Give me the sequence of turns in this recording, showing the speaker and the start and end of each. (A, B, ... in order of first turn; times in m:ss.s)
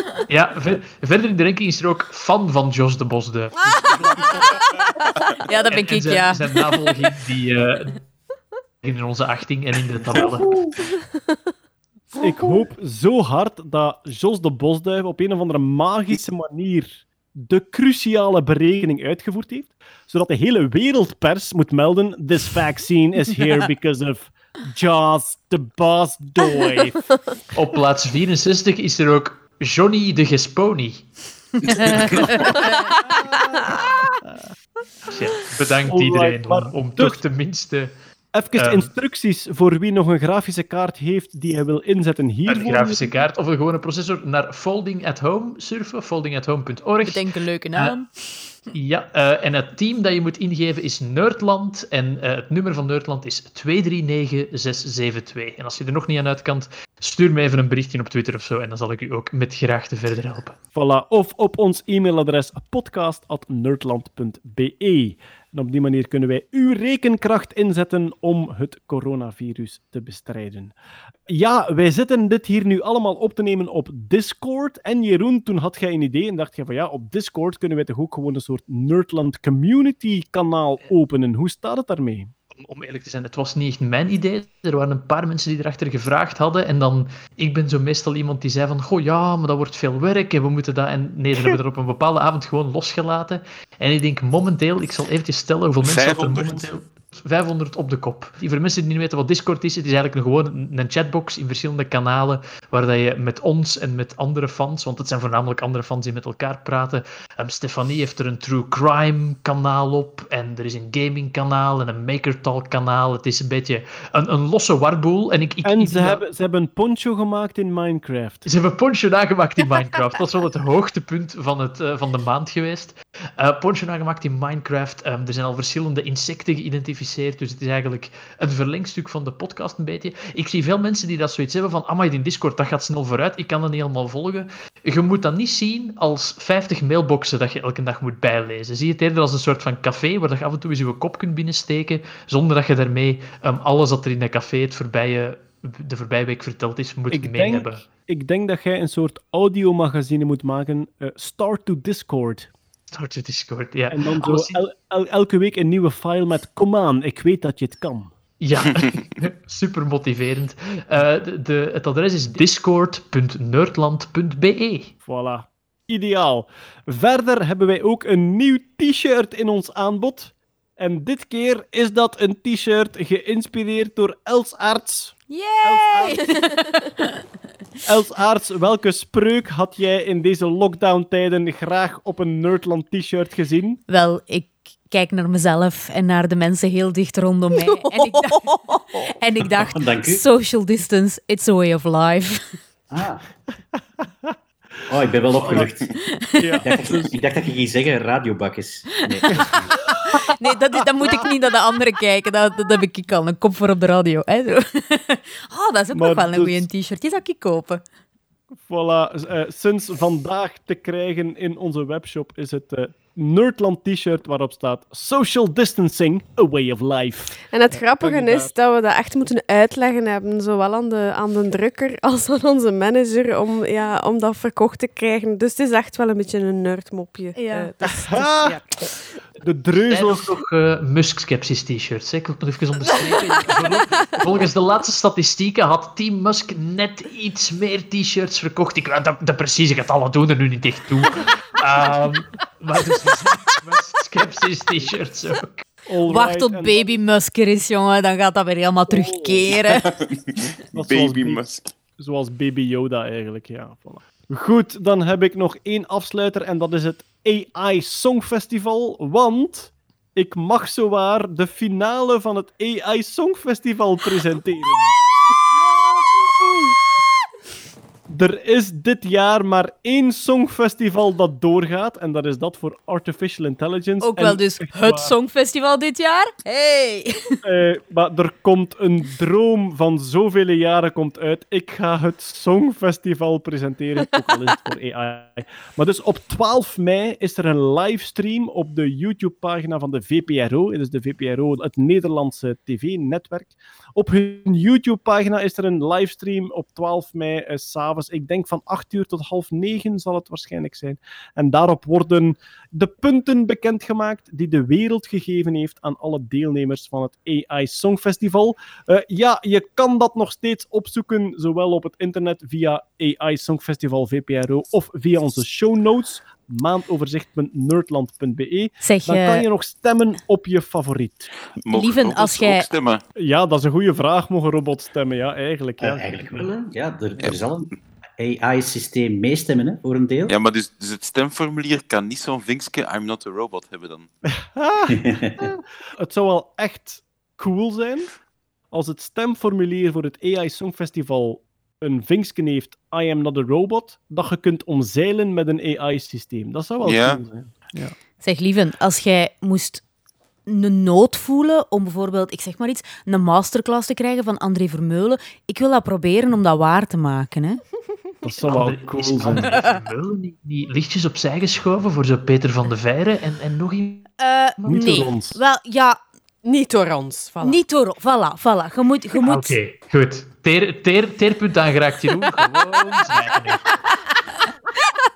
0:00.3-0:04.4 A
0:03.7-0:04.8 B
0:05.4-0:06.7 B
0:05.7-0:08.0 A
0:08.8-0:10.5 A
0:12.2-0:27.0 C
0:27.5-0:31.1 A
0:31.7-0:32.9 B
0:31.7-0:32.3 A
0:35.1-0:37.9 A
0:35.9-0:37.2 C
0:38.3-0:43.0 C
0:38.5-0:38.9 A
0:42.5-0:48.0 A
0:47.0-0:48.5 B
0:48.7-1:00.6 A
1:00.7-1:10.7 C
1:11.3-1:22.3 C
1:22.5-1:56.2 A
1:35.8-1:36.7 D
1:55.6-1:58.4 C
1:58.4-2:27.8 A
2:27.1-2:32.5 C
2:32.9-2:34.6 A
2:33.9-2:38.1 C
2:38.4-2:44.9 A
2:45.0-2:56.3 C
2:55.3-2:57.2 B
2:57.8-3:03.8 C
3:03.9-3:12.6 B
3:07.7-3:08.3 E
3:09.4-3:10.2 F
3:12.9-3:13.2 F
3:14.9-3:15.9 F
3:15.4-3:15.7 C
3:15.5-3:16.6 B
3:16.4-3:17.1 C
3:16.6-3:19.7 F
3:18.9-3:27.8 B
3:19.3-3:20.2 C
3:20.8-3:21.3 C
3:25.9-3:26.6 C
3:28.5-3:38.5 C
3:37.5-3:48.7 E
3:47.3-3:47.7 B
3:47.8-3:48.6 C
3:49.4-3:50.3 C
3:49.9-4:05.6 A
4:05.9-4:07.0 C
4:06.0-4:09.9 B
4:08.9-4:09.6 C
4:09.9-4:11.7 D
4:10.7-4:25.0 C
4:28.1-4:35.1 C
4:34.0-4:37.4 B
4:37.4-5:21.3 C
5:18.8-5:19.4 B
5:21.6-5:23.0 D
5:21.7-5:22.7 B
5:23.2-5:26.5 C
5:25.8-5:30.3 F
5:30.3-5:34.1 D
5:34.4-5:38.1 C
5:34.9-5:35.6 F
5:38.7-5:47.9 C
5:46.8-5:47.2 D
5:48.2-5:49.8 B
5:50.4-5:57.6 B
5:58.2-5:59.5 C
5:58.4-6:04.1 A
5:59.5-5:59.8 B
6:04.2-6:06.0 B
6:04.6-6:05.4 C
6:06.4-6:07.6 E
6:07.4-6:09.6 B
6:09.2-6:13.8 A